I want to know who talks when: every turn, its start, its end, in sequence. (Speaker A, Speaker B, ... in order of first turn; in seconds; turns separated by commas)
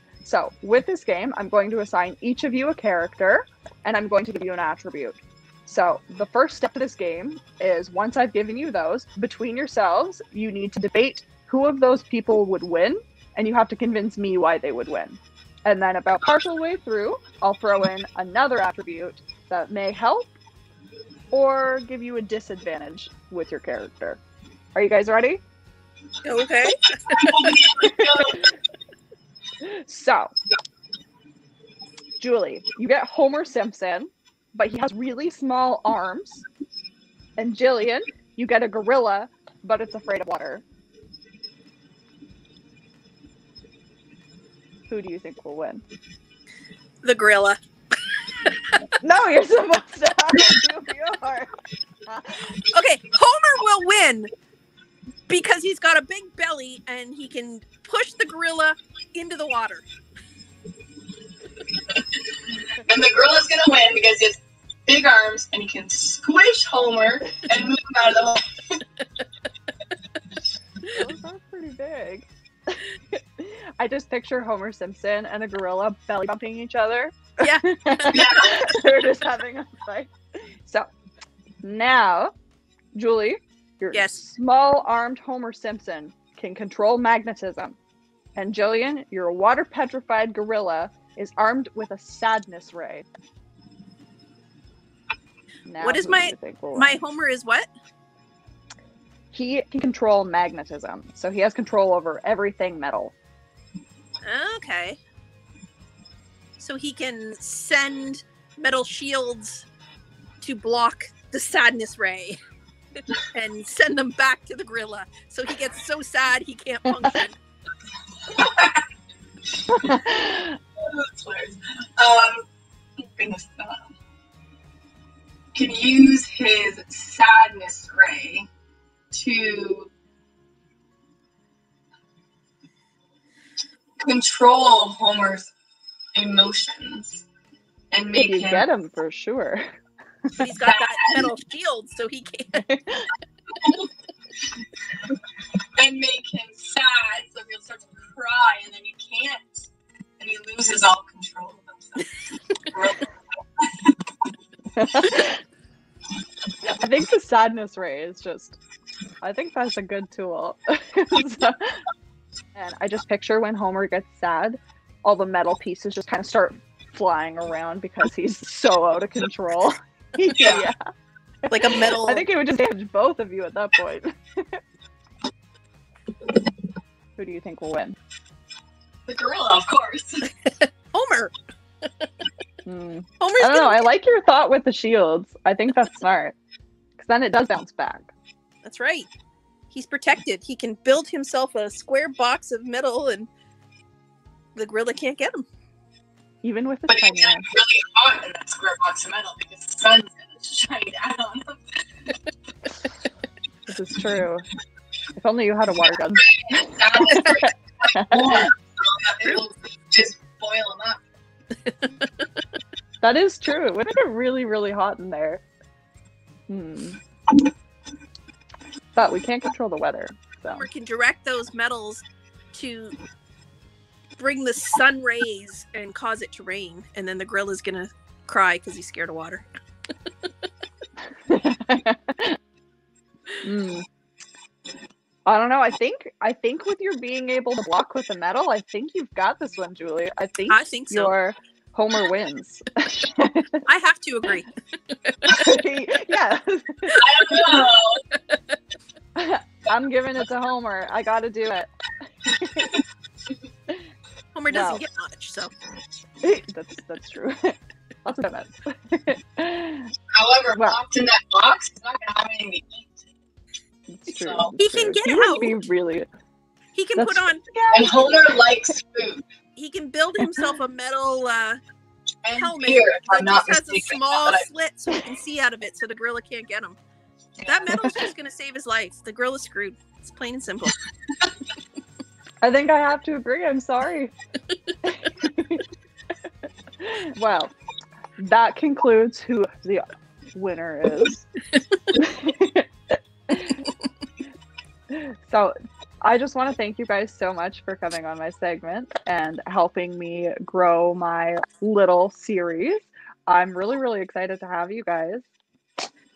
Speaker A: 0.2-20.3, Speaker A: 21.3-24.2, Speaker A: 24.7-25.4, Speaker B: 26.2-27.6, Speaker C: 27.1-28.5, Speaker A: 27.8-28.4, Speaker A: 29.6-30.3, Speaker A: 32.2-36.4, Speaker A: 37.4-40.6, Speaker A: 44.9-45.8, Speaker B: 47.0-47.6, Speaker B: 48.1-48.6, Speaker A: 49.0-51.5, Speaker A: 52.1-52.6, Speaker B: 52.6-54.3, Speaker B: 55.3-59.9, Speaker C: 62.7-68.8, Speaker A: 70.8-80.9, Speaker B: 77.4-78.3, Speaker C: 78.1-78.6, Speaker A: 81.6-82.3, Speaker A: 82.9-87.8, Speaker B: 83.9-84.2, Speaker A: 88.3-93.0, Speaker A: 95.7-97.0, Speaker B: 95.8-97.7, Speaker A: 99.3-103.1, Speaker B: 104.2-105.0, Speaker B: 106.6-109.7, Speaker B: 110.4-112.4, Speaker B: 113.0-117.3, Speaker C: 118.2-118.8, Speaker A: 119.7-120.6, Speaker C: 120.8-122.5, Speaker C: 123.0-123.9, Speaker C: 125.5-128.5, Speaker C: 129.1-129.9, Speaker C: 134.0-135.5, Speaker C: 136.1-137.2, Speaker C: 137.9-138.7, Speaker A: 138.2-139.7, Speaker B: 140.4-142.6, Speaker C: 140.6-141.3, Speaker A: 142.5-143.1, Speaker C: 143.6-143.9, Speaker C: 145.8-153.0, Speaker C: 153.6-154.1, Speaker A: 154.8-155.4, Speaker A: 156.6-158.6, Speaker A: 159.2-161.8, Speaker A: 162.5-170.8, Speaker C: 170.3-170.6, Speaker A: 171.4-174.6, Speaker B: 171.5-172.2, Speaker A: 177.2-178.0, Speaker C: 179.1-180.3, Speaker B: 180.5-182.1, Speaker A: 182.6-186.3, Speaker B: 183.2-183.8, Speaker A: 187.0-188.1, Speaker B: 188.6-189.1, Speaker B: 189.7-193.3, Speaker B: 194.5-195.4, Speaker A: 196.4-197.5, Speaker C: 196.9-202.1, Speaker A: 203.7-204.4, Speaker A: 205.2-208.5, Speaker C: 206.1-211.0, Speaker A: 213.0-215.4, Speaker A: 216.5-217.0, Speaker A: 218.9-220.7, Speaker B: 220.6-222.9, Speaker B: 224.2-229.4, Speaker A: 231.3-232.4, Speaker A: 233.4-233.8, Speaker A: 235.2-243.6, Speaker B: 240.5-241.1, Speaker B: 243.7-245.6, Speaker A: 245.2-247.0, Speaker C: 246.9-248.0, Speaker B: 248.1-248.6, Speaker A: 249.1-252.7, Speaker B: 254.3-255.5, Speaker A: 254.5-254.8, Speaker A: 256.2-259.9, Speaker C: 260.1-262.9, Speaker A: 260.5-260.8, Speaker A: 263.9-266.1, Speaker C: 264.1-264.5, Speaker B: 264.6-265.6, Speaker B: 266.7-267.4, Speaker A: 266.9-268.0, Speaker C: 267.7-269.2, Speaker B: 269.6-271.6, Speaker C: 272.2-274.4, Speaker B: 272.4-276.8, Speaker C: 277.4-277.8, Speaker B: 277.4-280.8, Speaker A: 282.4-284.1, Speaker A: 284.8-285.6, Speaker A: 286.8-287.5, Speaker A: 288.2-291.3, Speaker A: 291.9-293.6, Speaker A: 294.9-305.2